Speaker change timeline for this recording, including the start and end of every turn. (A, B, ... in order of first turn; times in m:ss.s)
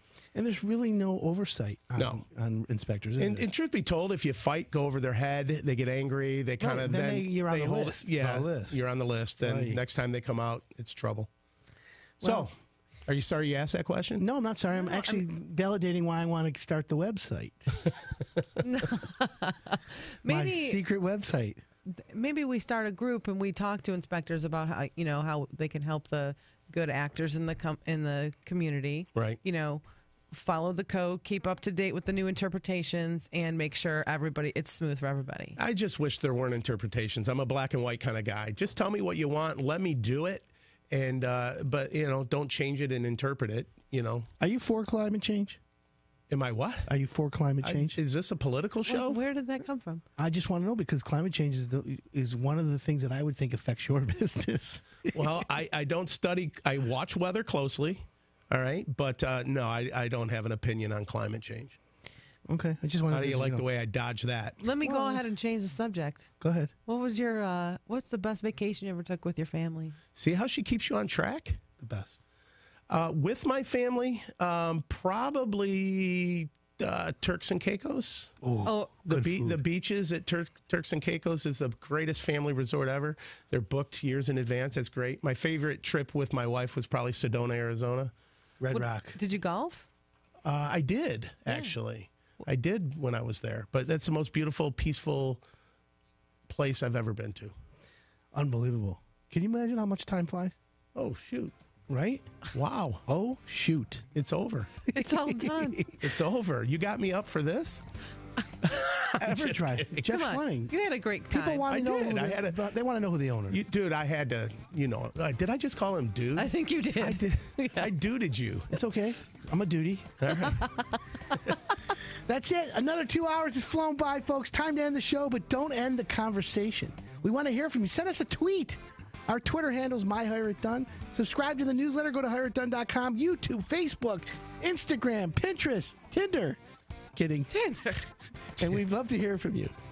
0:00.3-0:03.5 A
0:02.0-0:02.2 B
0:03.2-0:11.3 B
0:06.6-0:08.8 A
0:09.4-0:09.8 A
0:12.2-0:12.5 A
0:12.2-0:12.5 B
0:13.0-0:14.2 B
0:14.2-0:17.8 A
0:14.7-0:15.2 C
0:18.6-0:20.8 C
0:20.3-0:21.6 A
0:21.9-0:35.6 C
0:35.6-0:44.3 B
0:44.4-0:45.6 A
0:46.3-0:46.9 B
0:46.8-0:48.0 A
0:47.6-0:49.2 B
0:48.9-0:50.0 C
0:50.2-0:55.2 A
0:55.1-1:01.8 B
1:02.5-1:03.6 A
1:03.1-1:04.6 B
1:04.6-1:06.3 C
1:04.8-1:05.2 A
1:06.4-1:06.7 A
1:06.8-1:10.0 C
1:10.1-1:11.6 B
1:11.8-1:12.2 A
1:12.9-1:18.3 B
1:18.4-1:19.6 A
1:18.6-1:18.9 C
1:19.0-1:28.1 B
1:28.6-1:29.2 A
1:28.7-1:29.8 C
1:30.4-1:35.4 B
1:31.5-1:31.7 C
1:36.5-1:37.5 B
1:38.3-1:40.6 A
1:40.9-1:41.5 B
1:41.9-1:42.2 A
1:42.5-1:43.0 B
1:43.1-1:44.0 A
1:44.1-1:44.7 B
1:44.9-1:45.8 C
1:45.0-1:46.0 A
1:46.0-1:47.8 B
1:48.6-1:50.0 B
1:49.2-1:50.7 A
1:50.0-1:51.7 C
1:51.3-1:53.6 A
1:51.7-1:52.6 B
1:53.5-1:58.7 B
1:56.4-1:57.9 C
1:58.7-2:00.6 A
2:00.2-2:00.5 B
2:00.4-2:01.0 C
2:02.3-2:16.6 A
2:17.1-2:17.5 A
2:17.5-2:18.1 C
2:18.6-2:19.7 A